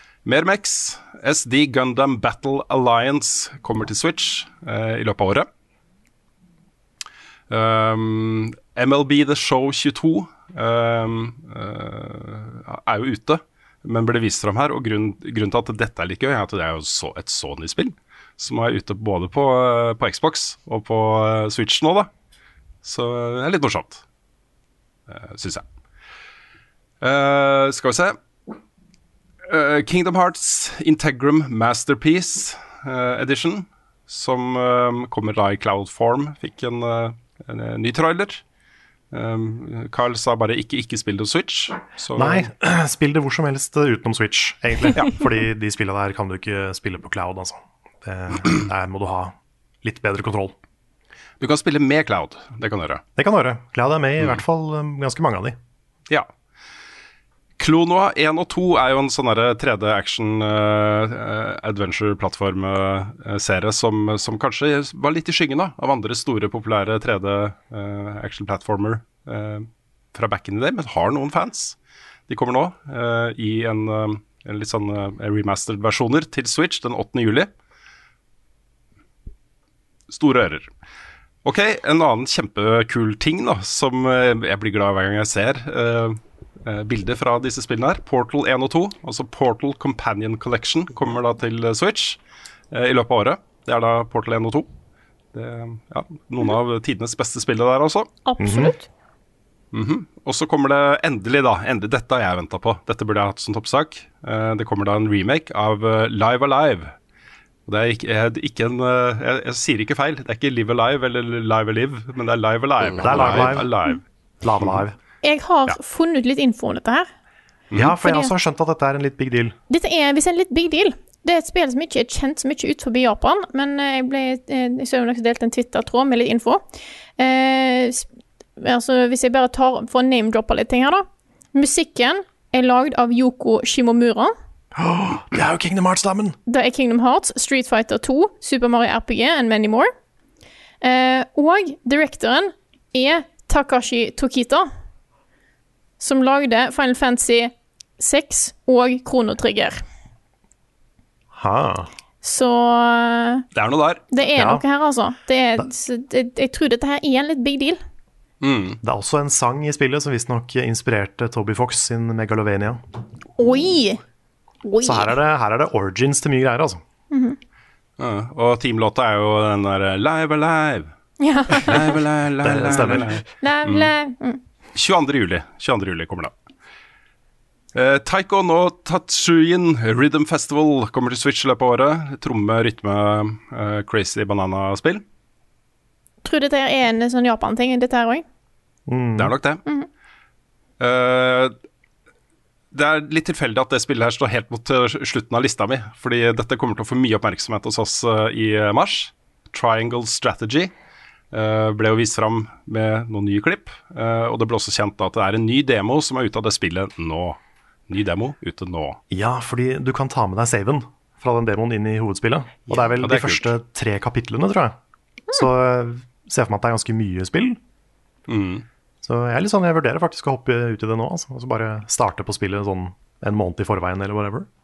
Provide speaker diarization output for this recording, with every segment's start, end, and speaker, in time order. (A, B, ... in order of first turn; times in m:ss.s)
0:00.2-0:05.5 A
0:07.5-0:22.1 A
0:22.8-0:24.0 A
0:25.1-0:25.6 A
0:27.0-0:28.2 A
0:29.5-0:38.4 A
0:39.1-0:42.5 A
0:42.1-0:50.6 B
0:51.4-0:53.0 A
0:53.2-0:55.6 B
0:57.6-1:11.8 A
1:12.3-1:17.5 A
1:20.1-1:20.7 A
1:21.4-1:32.2 A
1:32.7-1:34.7 A
1:35.3-1:38.1 A
1:38.3-1:38.9 C
1:38.4-1:38.7 B
1:39.7-1:46.9 A
1:47.7-1:54.0 A
1:53.0-1:53.8 B
1:54.4-1:55.0 B
1:55.2-1:57.1 C
1:57.7-1:59.6 B
1:58.0-1:58.3 C
1:59.7-2:06.6 C
2:07.2-2:08.1 C
2:08.6-2:14.4 C
2:14.8-2:16.4 B
2:16.5-2:19.9 C
2:20.8-2:24.7 C
2:26.0-2:29.8 C
2:31.3-2:31.9 B
2:32.2-2:33.4 C
2:33.5-2:34.0 A
2:34.1-2:37.8 C
2:34.4-2:34.6 B
2:38.4-2:38.8 A
2:38.8-2:42.8 B
2:43.4-2:44.0 C
2:44.6-2:45.2 C
2:44.8-2:46.8 B
2:47.1-2:47.4 C
2:48.0-2:50.9 A
2:51.2-2:52.0 C
2:51.6-2:53.9 A
2:52.4-2:53.2 B
2:53.4-2:54.4 C
2:54.8-2:56.3 A
2:57.7-3:05.0 A
3:06.2-3:08.2 C
3:08.9-3:09.3 B
3:09.2-3:09.6 A
3:10.8-3:11.6 A
3:12.7-3:20.7 A
3:21.3-3:29.0 A
3:29.1-3:34.8 B
3:33.0-3:33.5 A
3:35.3-3:37.6 B
3:38.3-3:38.7 A
3:39.0-3:44.5 B